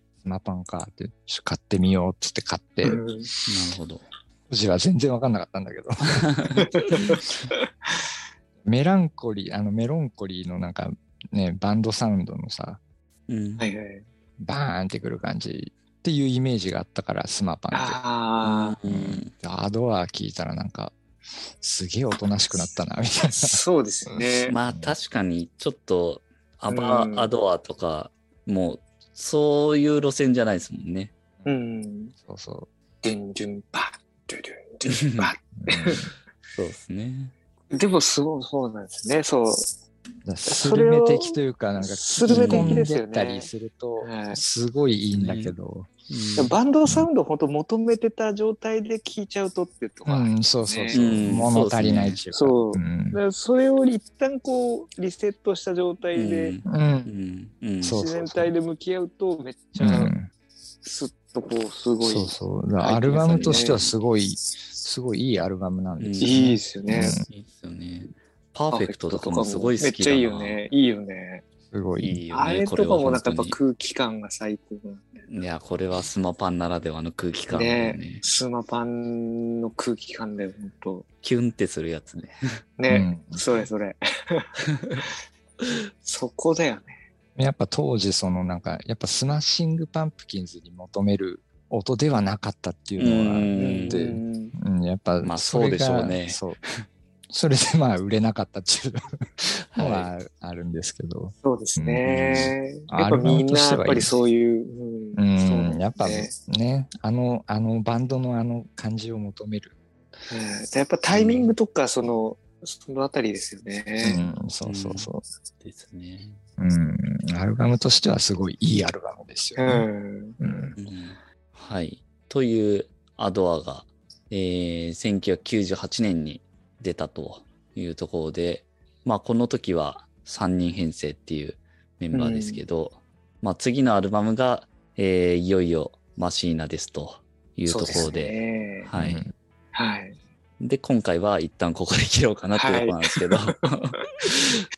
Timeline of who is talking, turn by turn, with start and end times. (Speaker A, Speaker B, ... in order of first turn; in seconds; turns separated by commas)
Speaker A: 0.2-3.0, Speaker B: 2.8-3.3, Speaker C: 3.5-4.0, Speaker A: 4.5-6.3, Speaker C: 6.2-7.2, Speaker B: 6.7-7.9, Speaker A: 8.6-12.8, Speaker C: 13.3-13.7, Speaker B: 13.6-14.1, Speaker A: 14.4-18.0, Speaker B: 17.7-18.8, Speaker C: 18.4-19.3, Speaker A: 18.9-21.0, Speaker A: 21.6-24.9, Speaker B: 23.3-24.6, Speaker C: 24.5-31.1, Speaker B: 26.7-27.3, Speaker B: 31.4-32.1, Speaker A: 32.2-32.7, Speaker B: 33.0-36.1, Speaker C: 34.9-35.3, Speaker A: 35.6-36.1, Speaker C: 36.5-37.3, Speaker B: 37.7-39.8, Speaker A: 40.2-45.9, Speaker B: 40.5-44.4, Speaker C: 42.3-42.9, Speaker C: 45.1-45.5, Speaker C: 46.1-46.6, Speaker B: 46.4-51.1, Speaker A: 50.0-53.2, Speaker C: 50.9-52.2, Speaker B: 52.3-56.6, Speaker C: 56.1-58.0, Speaker A: 56.6-57.1, Speaker A: 57.8-58.5, Speaker B: 57.9-60.1, Speaker A: 59.8-60.3, Speaker B: 60.8-63.9, Speaker A: 62.0-67.2, Speaker C: 63.2-63.9, Speaker C: 66.0-66.4, Speaker B: 66.2-67.2, Speaker C: 66.9-70.6, Speaker B: 68.7-71.4, Speaker A: 71.7-72.2, Speaker C: 72.0-73.6, Speaker B: 72.3-75.0, Speaker C: 75.3-78.2, Speaker B: 77.5-81.0, Speaker C: 81.2-82.4, Speaker B: 82.8-85.0, Speaker A: 82.9-83.4, Speaker B: 86.0-87.0, Speaker A: 87.3-96.6, Speaker C: 93.0-94.0, Speaker B: 93.5-94.5, Speaker C: 95.2-96.8, Speaker A: 97.3-104.1, Speaker C: 99.7-100.1, Speaker B: 101.4-106.3, Speaker A: 105.1-109.7, Speaker B: 110.3-114.2, Speaker C: 111.1-111.5, Speaker A: 114.0-115.2, Speaker C: 114.6-116.4, Speaker A: 116.6-119.9, Speaker B: 119.6-120.4, Speaker A: 120.4-120.8, Speaker C: 120.8-139.2, Speaker B: 132.1-132.6, Speaker B: 137.7-138.9, Speaker A: 138.9-139.3, Speaker B: 139.7-140.2, Speaker C: 140.6-144.6, Speaker B: 142.6-144.0